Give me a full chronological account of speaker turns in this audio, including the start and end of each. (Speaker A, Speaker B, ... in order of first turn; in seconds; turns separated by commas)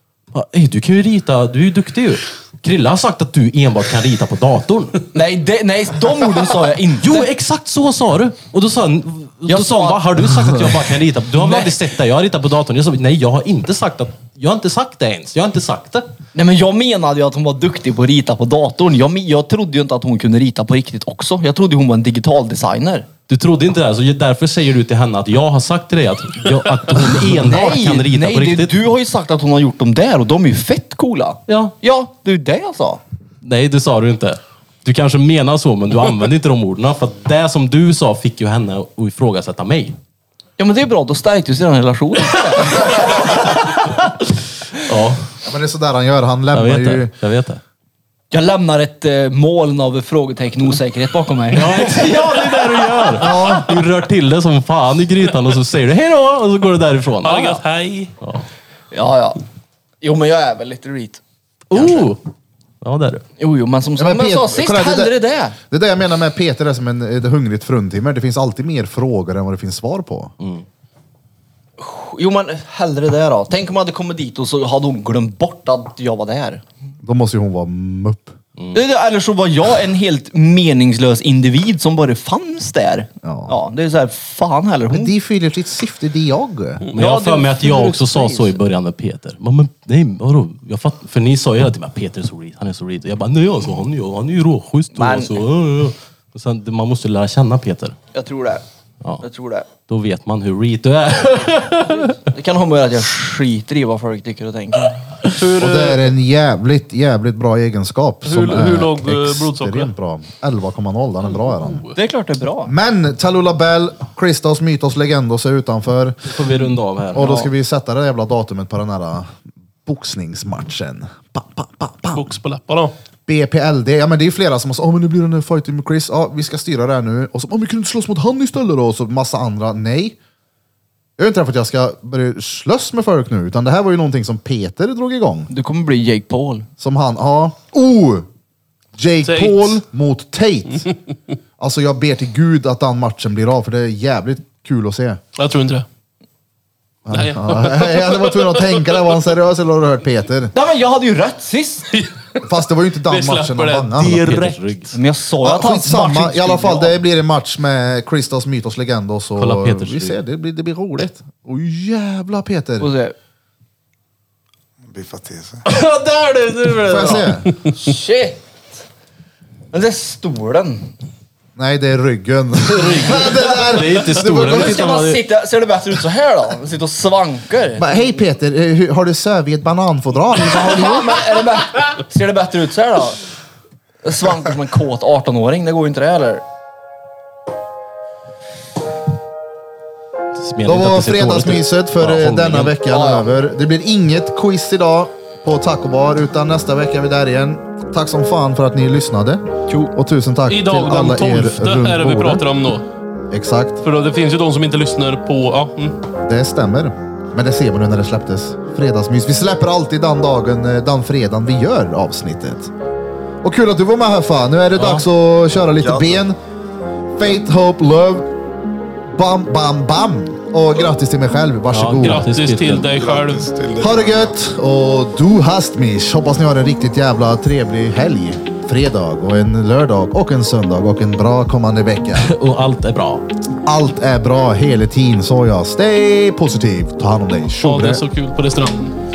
Speaker A: 0.3-5.0, Speaker B: 5.1-7.3, Speaker A: 7.0-16.1, Speaker B: 9.5-10.7, Speaker B: 11.3-11.8, Speaker B: 16.4-23.1, Speaker A: 23.3-28.8, Speaker B: 27.3-33.0, Speaker A: 31.5-31.7, Speaker A: 33.4-40.0, Speaker B: 40.6-43.9, Speaker A: 44.9-45.3, Speaker C: 45.4-47.1, Speaker A: 46.5-47.6, Speaker B: 48.3-52.8, Speaker A: 51.5-57.6, Speaker C: 53.2-53.8, Speaker D: 57.2-58.1, Speaker A: 58.2-58.5, Speaker B: 58.9-59.4, Speaker B: 60.0-61.2, Speaker A: 61.7-62.2, Speaker B: 61.7-62.1, Speaker A: 62.8-63.2, Speaker B: 63.4-65.6, Speaker C: 64.0-70.3, Speaker A: 70.4-70.7, Speaker B: 71.8-76.6, Speaker C: 77.0-78.4, Speaker B: 78.7-85.2, Speaker C: 83.2-83.6, Speaker C: 84.9-86.9, Speaker A: 86.9-98.0, Speaker B: 86.9-88.6, Speaker B: 94.9-95.5, Speaker B: 98.1-98.6, Speaker B: 99.2-99.7, Speaker A: 99.9-102.2, Speaker B: 102.0-105.0, Speaker D: 105.3-106.2, Speaker C: 105.6-111.9, Speaker D: 108.2-109.9, Speaker D: 111.6-112.0, Speaker B: 112.0-112.7, Speaker C: 112.7-116.3, Speaker A: 116.3-117.3, Speaker C: 117.1-122.3, Speaker B: 117.2-117.5, Speaker D: 122.1-122.9, Speaker C: 123.3-130.2, Speaker C: 131.2-135.5, Speaker B: 135.5-136.7, Speaker C: 136.8-138.3, Speaker C: 139.0-140.9, Speaker D: 139.2-139.8, Speaker C: 141.6-145.2, Speaker D: 145.3-145.9, Speaker C: 147.1-150.5, Speaker D: 147.1-149.0, Speaker B: 150.5-151.9, Speaker D: 151.9-152.4, Speaker C: 152.4-154.4, Speaker D: 153.1-154.6, Speaker A: 154.2-155.0, Speaker B: 154.9-157.0, Speaker C: 155.4-162.9, Speaker A: 159.4-160.2, Speaker B: 162.8-163.2, Speaker E: 164.9-165.6, Speaker A: 165.7-167.3, Speaker C: 166.8-167.5, Speaker B: 167.7-168.4, Speaker B: 169.7-170.9, Speaker C: 171.6-174.8, Speaker A: 172.7-175.2, Speaker B: 173.1-173.5, Speaker B: 174.3-177.9, Speaker C: 177.8-181.2, Speaker B: 180.5-183.2, Speaker B: 184.0-186.4, Speaker A: 190.4-192.8, Speaker C: 190.7-202.4, Speaker B: 192.9-193.3, Speaker D: 200.5-202.8, Speaker C: 203.3-203.8, Speaker D: 203.8-206.0, Speaker C: 206.2-212.7, Speaker C: 213.4-216.4, Speaker A: 214.8-215.1, Speaker E: 215.8-216.1, Speaker C: 217.2-218.3, Speaker C: 219.1-222.3, Speaker A: 221.7-222.9, Speaker D: 222.0-223.5, Speaker E: 223.0-224.3, Speaker C: 223.8-232.3, Speaker A: 232.2-233.2, Speaker C: 233.6-238.0, Speaker D: 237.6-239.0